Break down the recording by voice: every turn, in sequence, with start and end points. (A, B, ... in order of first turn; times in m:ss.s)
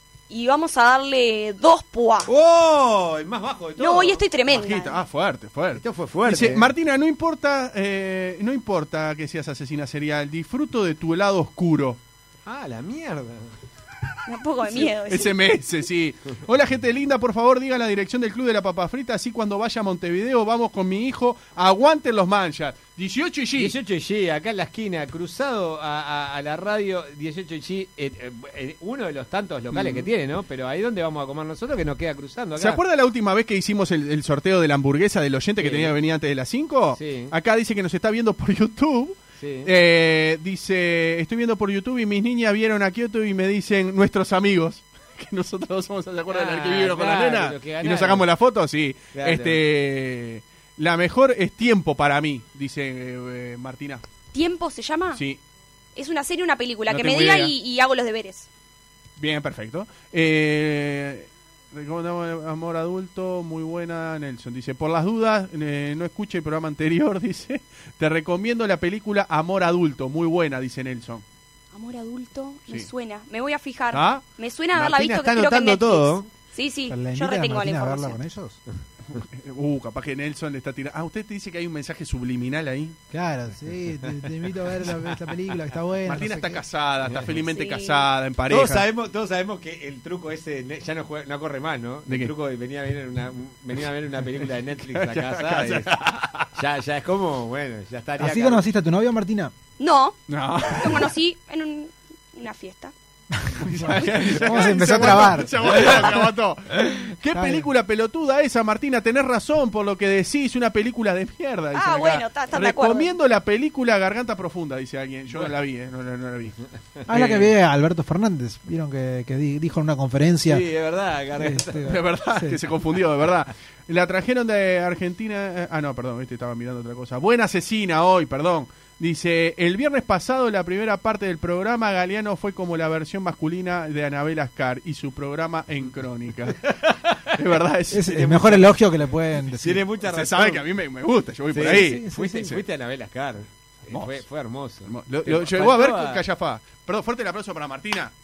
0:00.3-0:02.3 A
0:02.2-0:04.2 B
0:03.8-0:05.0 A
0:04.5-0:12.0 C
0:05.7-0:06.7 B
0:12.4-0:13.5 B
0:14.2-0:15.4 A
0:14.6-0:23.7 C
0:23.6-0:32.8 B
0:29.7-0:30.1 C
0:32.6-0:54.0 C
0:35.6-0:36.0 B
0:36.9-0:37.3 B
0:39.4-0:39.7 B
0:46.3-0:48.3 B
0:49.1-0:49.6 B
0:54.3-0:55.2 A
0:55.1-0:55.4 C
0:55.9-0:58.5 A
0:56.9-0:57.5 C
0:59.2-1:11.2 C
1:11.7-1:18.2 A
1:13.9-1:14.2 C
1:14.7-1:16.3 B
1:16.9-1:18.6 D
1:19.1-1:23.0 C
1:23.1-1:26.6 D
1:26.0-1:28.9 C
1:27.5-1:28.0 A
1:28.5-1:35.9 B
1:32.1-1:32.3 C
1:34.8-1:36.5 C
1:36.5-1:38.6 B
1:38.2-1:39.5 D
1:39.8-1:40.2 A
1:40.3-1:41.1 C
1:40.7-1:42.9 A
1:43.4-1:45.6 D
1:43.6-1:56.6 C
1:44.5-1:44.9 A
1:47.3-1:47.7 D
1:51.7-1:53.1 A
1:57.1-2:00.6 D
1:57.1-1:57.5 C
2:00.4-2:02.0 B
2:01.3-2:02.6 D
2:01.9-2:18.0 C
2:16.6-2:16.9 B
2:17.9-2:19.9 D
2:18.0-2:18.8 B
2:19.4-2:20.6 B
2:20.0-2:22.0 C
2:21.5-2:26.2 B
2:21.6-2:22.6 D
2:23.9-2:24.3 C
2:24.8-2:28.1 C